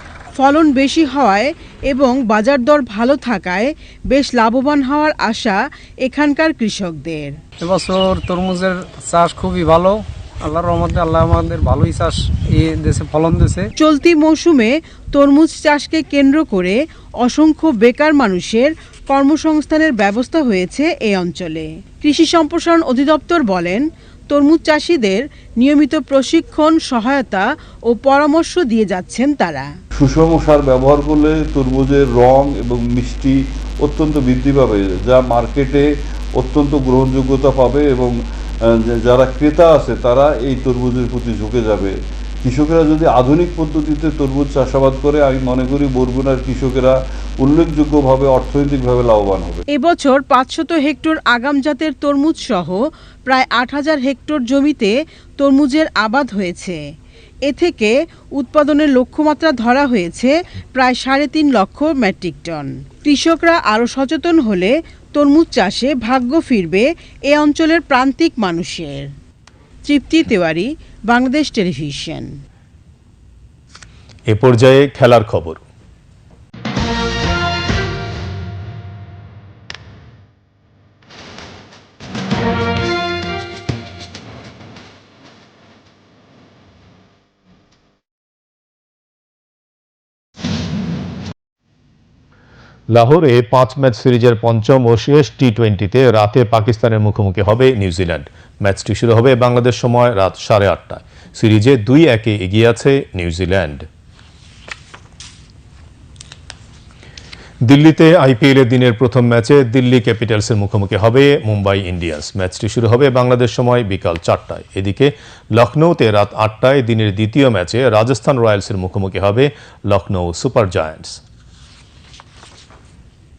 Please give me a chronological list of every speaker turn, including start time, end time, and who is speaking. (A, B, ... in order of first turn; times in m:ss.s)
0:00.4-0:07.4 A
0:07.6-0:13.7 B
0:13.8-0:29.7 A
0:30.0-0:35.8 C
0:36.4-0:49.6 C
0:49.7-0:56.8 A
0:57.5-1:09.1 A
1:09.9-1:12.3 A
1:14.3-1:15.6 D
1:32.9-1:43.9 D
1:47.6-2:01.2 D